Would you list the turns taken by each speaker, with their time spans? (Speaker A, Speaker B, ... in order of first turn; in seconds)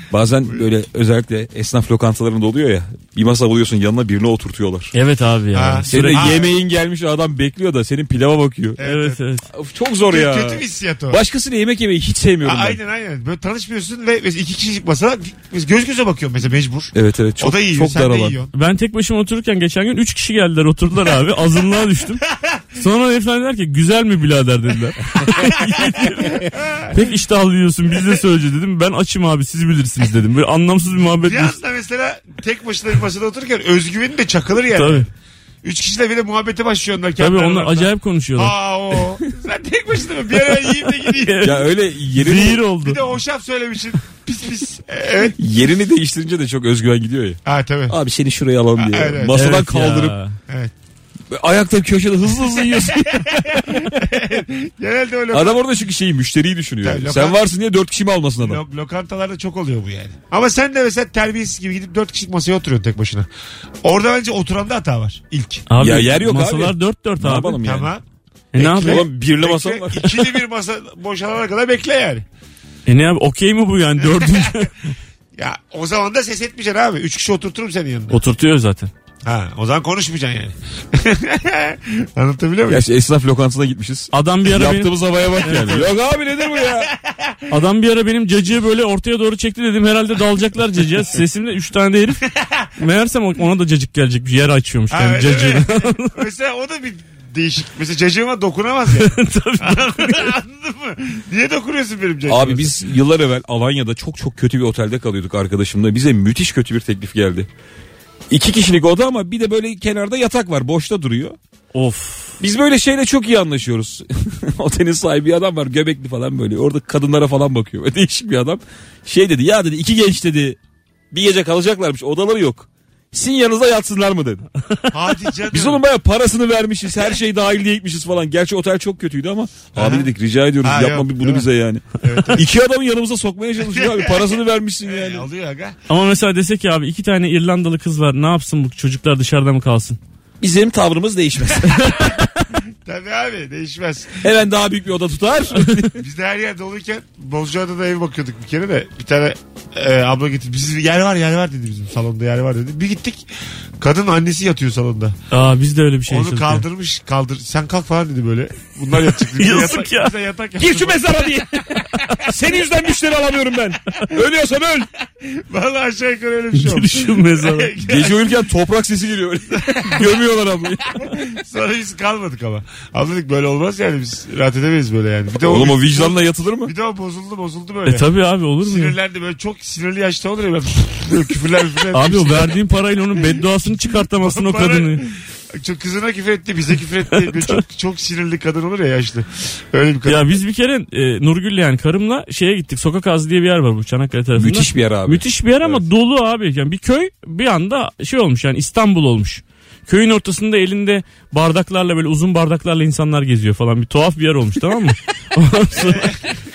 Speaker A: 0.1-4.9, 5.9-8.8, 9.5-12.8, 16.9-18.4, 41.4-42.6, 45.4-50.1, 51.3-54.1, 55.3-58.6, 65.8-67.9, 68.8-70.4, 82.7-86.9, 102.3-107.5, 108.3-111.4, 112.4-120.6, 121.1-124.5, 125.5-135.3, 140.4-142.1, 144.2-145.9, 160.6-164.9, 167.8-171.3, 175.4-176.7, 194.3-195.8
Speaker B: 4.9-6.4, 8.8-9.5, 18.5-22.2, 22.8-31.6, 34.8-35.1, 37.2-38.5, 41.2-43.0, 49.3-50.4, 65.7-67.6, 68.5-69.0, 72.9-74.7, 78.1-78.9, 84.1-85.9, 87.5-92.2, 92.8-96.2, 98.9-100.3, 111.7-112.4, 135.9-140.0, 155.3-156.6, 159.4-160.1, 166.6-167.7, 177.9-178.9, 181.9-185.0, 187.2-187.6, 190.1-206.1
Speaker C: 5.5-6.5, 8.8-9.2, 10.1-11.2, 12.4-18.5, 22.3-22.6, 25.4-27.0, 31.2-35.1, 35.6-41.6, 42.8-45.4, 47.5-48.0, 48.8-49.5, 52.6-55.6, 56.8-57.4, 58.4-63.3, 63.8-65.7, 67.6-68.0, 68.6-72.2, 74.0-74.7, 75.4-78.2, 79.2-82.9, 86.5-87.5, 94.9-102.8, 124.9-125.8, 129.7-130.1, 130.6-132.5, 133.7-135.8, 142.8-144.2, 145.9-153.2, 153.8-155.2, 156.1-162.3, 165.2-168.4, 169.5-170.1, 171.0-182.6, 183.2-190.4, 205.7-206.3